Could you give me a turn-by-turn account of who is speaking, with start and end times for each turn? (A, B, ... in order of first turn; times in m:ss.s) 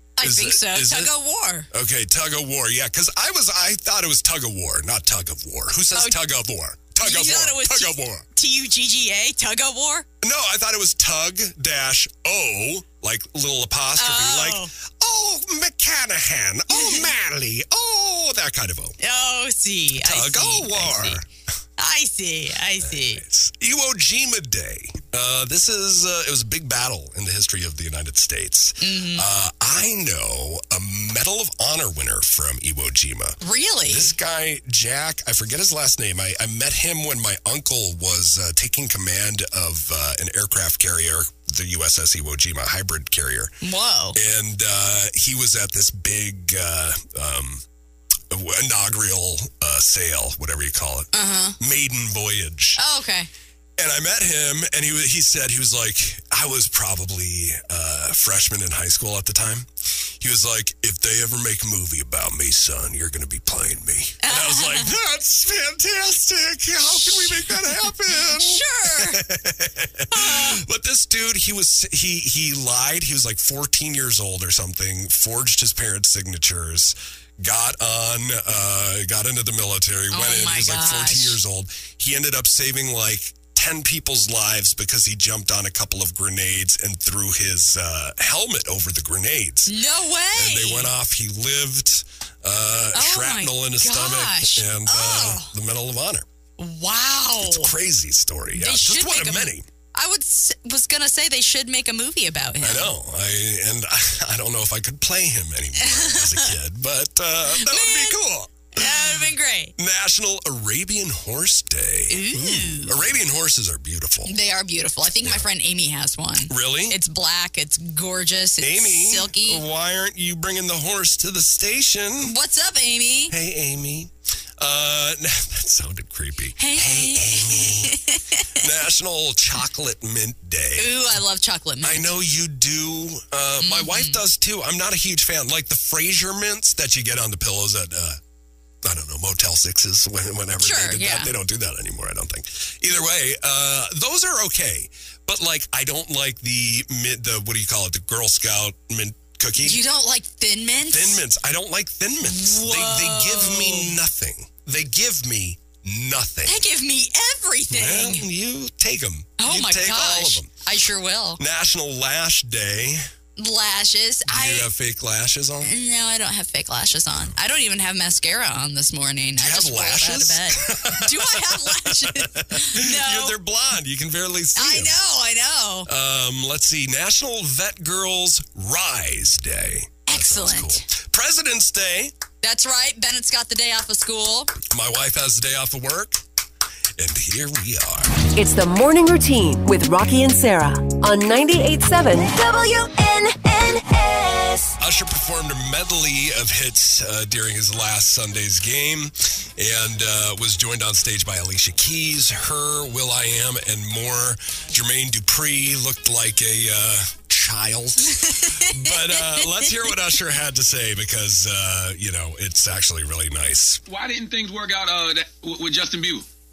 0:00.2-0:01.7 A
0:00.2-0:01.1 B
0:01.7-0:08.2 B
0:07.0-0:10.0 A
0:10.2-0:19.0 B
0:14.0-0:14.7 A
0:16.7-0:17.1 A
0:19.0-0:21.2 A
0:20.0-0:21.3 B
0:21.8-0:23.2 A
0:22.8-0:43.5 B
0:28.8-0:29.3 A
0:33.4-0:34.1 A
0:43.6-0:44.2 A
0:44.1-0:47.6 B
0:48.3-0:52.8 B
0:51.1-0:51.6 A
0:52.8-0:53.3 A
0:53.8-1:29.7 B
1:04.2-1:04.9 A
1:06.8-1:09.2 A
1:10.1-1:10.6 A
1:20.1-1:21.4 A
1:29.7-1:30.9 A
1:30.3-1:36.2 B
1:32.9-1:35.5 A
1:36.6-1:37.7 A
1:37.4-1:39.6 B
1:38.6-1:42.9 A
1:42.6-1:49.2 B
1:45.8-1:46.5 A
1:47.5-1:48.2 A
1:48.7-1:49.7 A
1:49.8-1:54.3 B
1:52.1-1:53.1 A
1:54.2-1:59.6 A
1:56.5-1:57.0 B
1:58.6-2:02.3 B
2:02.2-2:03.3 A
2:03.3-2:08.0 B
2:06.6-2:08.6 A
2:08.6-2:11.0 B
2:10.8-2:12.1 A
2:11.8-2:18.2 B
2:13.6-2:14.2 A
2:18.8-2:29.8 B
2:20.6-2:21.3 A
2:29.6-2:31.2 A
2:30.9-2:36.6 B
2:32.2-2:34.0 A
2:36.4-2:38.3 A
2:37.7-2:40.5 B
2:39.4-2:41.4 A
2:41.4-2:43.0 B
2:43.4-2:44.7 A
2:44.3-2:45.7 B
2:45.6-2:53.4 A
2:49.4-2:55.0 B
2:54.6-2:55.9 A
2:55.8-3:02.1 B
3:00.1-3:00.9 A
3:02.4-3:04.5 A
3:04.6-3:06.2 B
3:07.0-3:08.2 B
3:08.3-3:12.3 C
3:12.2-3:14.8 D
3:14.8-3:33.8 B
3:28.2-3:29.8 A
3:33.9-3:36.2 E